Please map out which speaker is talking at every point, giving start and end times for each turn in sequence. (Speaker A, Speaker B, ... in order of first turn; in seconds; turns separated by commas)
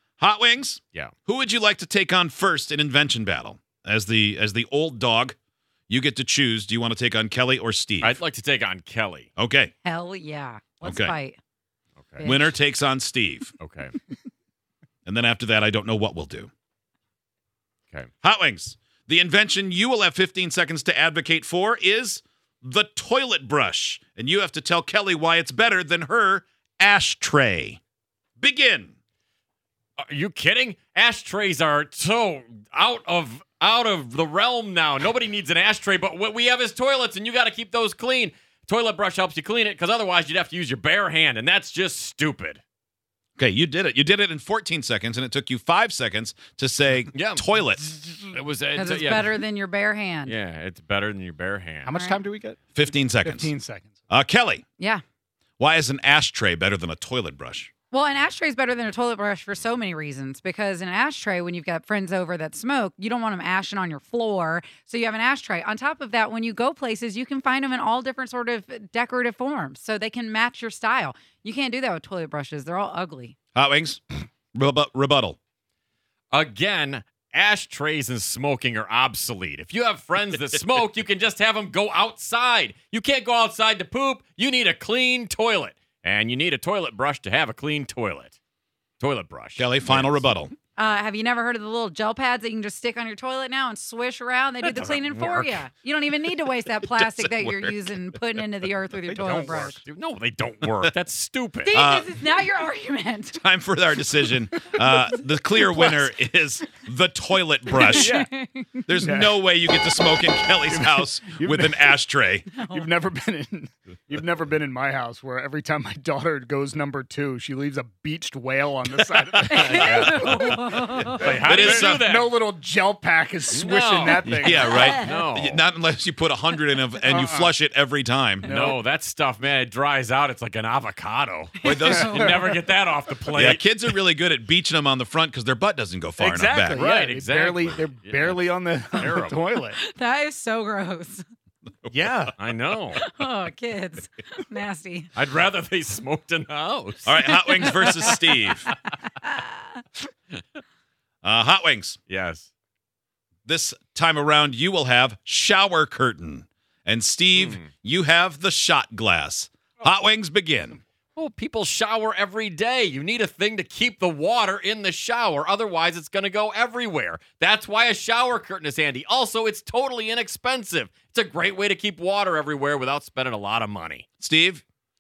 Speaker A: 0.2-5.3, Speaker A: 5.9-8.2, Speaker B: 8.0-9.3, Speaker A: 9.4-9.7, Speaker C: 9.8-11.4, Speaker A: 10.8-11.2, Speaker C: 12.2-12.5, Speaker A: 12.2-13.5, Speaker B: 13.6-13.9, Speaker A: 15.1-16.5, Speaker A: 18.2-27.8, Speaker A: 28.4-28.9, Speaker B: 30.0-42.6, Speaker A: 43.4-47.9, Speaker B: 47.1-49.4, Speaker C: 48.7-50.4, Speaker B: 50.3-51.9, Speaker D: 51.8-52.6, Speaker C: 51.9-52.2, Speaker A: 52.8-53.5, Speaker D: 53.2-54.0, Speaker A: 54.1-54.6, Speaker C: 54.8-55.0, Speaker A: 55.6-57.7, Speaker C: 57.9-73.3, Speaker A: 73.5-75.4, Speaker B: 76.3-88.4, Speaker B: 89.0-90.3, Speaker A: 89.6-90.5, Speaker C: 90.8-99.8, Speaker B: 94.6-95.6, Speaker A: 96.8-98.0, Speaker D: 99.1-99.8, Speaker B: 99.2-101.8, Speaker C: 101.6-103.4, Speaker A: 101.7-102.2, Speaker A: 103.3-108.3, Speaker C: 107.7-108.7, Speaker D: 107.9-108.3, Speaker A: 108.9-112.5, Speaker D: 109.0-109.3, Speaker D: 110.7-112.0, Speaker C: 112.6-112.9, Speaker D: 112.6-120.6, Speaker A: 119.2-122.0, Speaker C: 119.5-121.3, Speaker B: 119.6-120.3, Speaker B: 121.2-122.3, Speaker D: 121.5-124.8, Speaker B: 123.5-125.6, Speaker C: 124.4-125.2, Speaker A: 124.4-128.6, Speaker D: 127.1-127.5, Speaker D: 128.4-128.8, Speaker B: 128.4-133.6, Speaker C: 131.6-132.3, Speaker A: 131.6-132.4, Speaker D: 132.0-132.3, Speaker A: 133.3-136.8, Speaker D: 136.2-139.8, Speaker B: 136.8-139.4, Speaker C: 139.7-141.2, Speaker D: 141.9-142.3, Speaker B: 142.4-143.0, Speaker C: 142.9-145.1, Speaker B: 145.2-147.2, Speaker A: 147.1-148.7, Speaker C: 147.2-148.4, Speaker C: 149.2-149.6, Speaker A: 151.2-152.0, Speaker B: 152.1-152.5, Speaker A: 153.4-160.8, Speaker B: 157.3-157.6, Speaker B: 161.2-174.1, Speaker A: 174.2-174.6